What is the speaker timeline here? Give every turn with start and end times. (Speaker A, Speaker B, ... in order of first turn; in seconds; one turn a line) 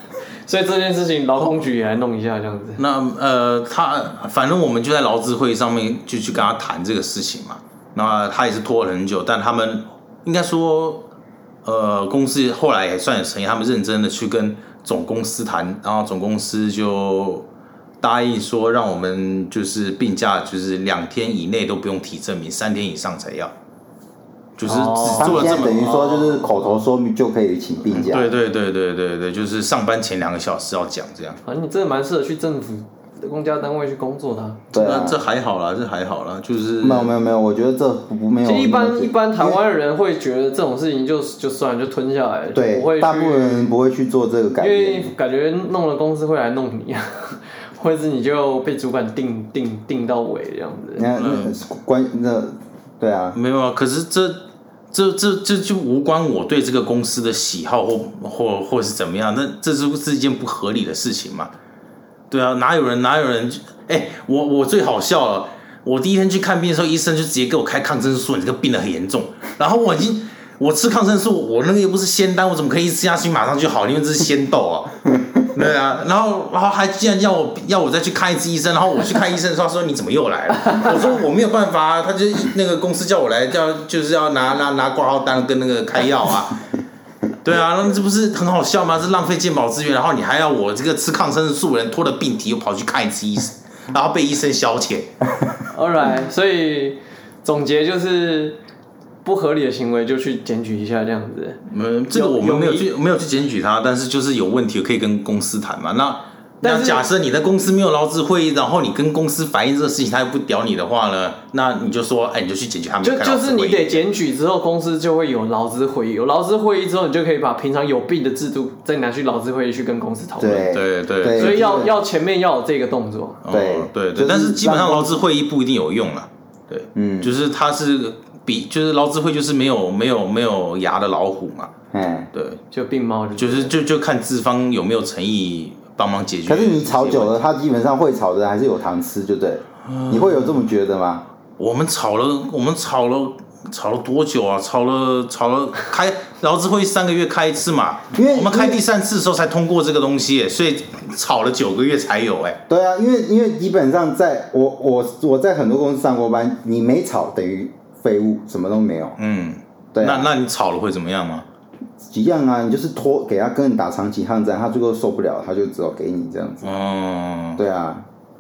Speaker A: 0.5-2.8
Speaker B: 2.8-11.1
Speaker B: 11.6-17.5
Speaker B: 18.0-23.5
Speaker B: 24.6-26.1
Speaker A: 24.6-26.8
Speaker C: 25.1-28.3
Speaker B: 27.9-31.4
Speaker A: 31.4-34.6
Speaker C: 34.7-35.2
Speaker B: 34.7-37.1
Speaker C: 36.8-39.6
Speaker A: 38.4-43.7
Speaker C: 42.5-45.1
Speaker A: 44.6-51.1
Speaker C: 51.0-53.4
Speaker B: 51.2-51.6
Speaker B: 53.3-61.5
Speaker B: 62.3-86.6
Speaker B: 87.4-95.1
Speaker A: 95.7-98.6
Speaker A: 99.2-101.6
Speaker B: 101.7-114.0
Speaker A: 102.1-102.9
Speaker A: 106.6-107.0
Speaker A: 113.0-120.7
Speaker C: 120.4-121.9
Speaker B: 120.7-121.6
Speaker A: 121.3-123.4
Speaker B: 123.4-131.7
Speaker C: 123.5-125.2
Speaker C: 126.9-127.3
Speaker C: 131.9-132.3
Speaker B: 132.3-132.6
Speaker A: 132.7-133.7
Speaker B: 133.4-137.4
Speaker C: 136.4-141.2
Speaker B: 139.9-140.5
Speaker B: 141.6-152.6
Speaker C: 148.1-148.8
Speaker C: 152.7-159.2
Speaker B: 159.2-161.4
Speaker C: 159.9-160.3
Speaker C: 162.0-166.7
Speaker B: 166.6-167.6
Speaker C: 167.6-168.1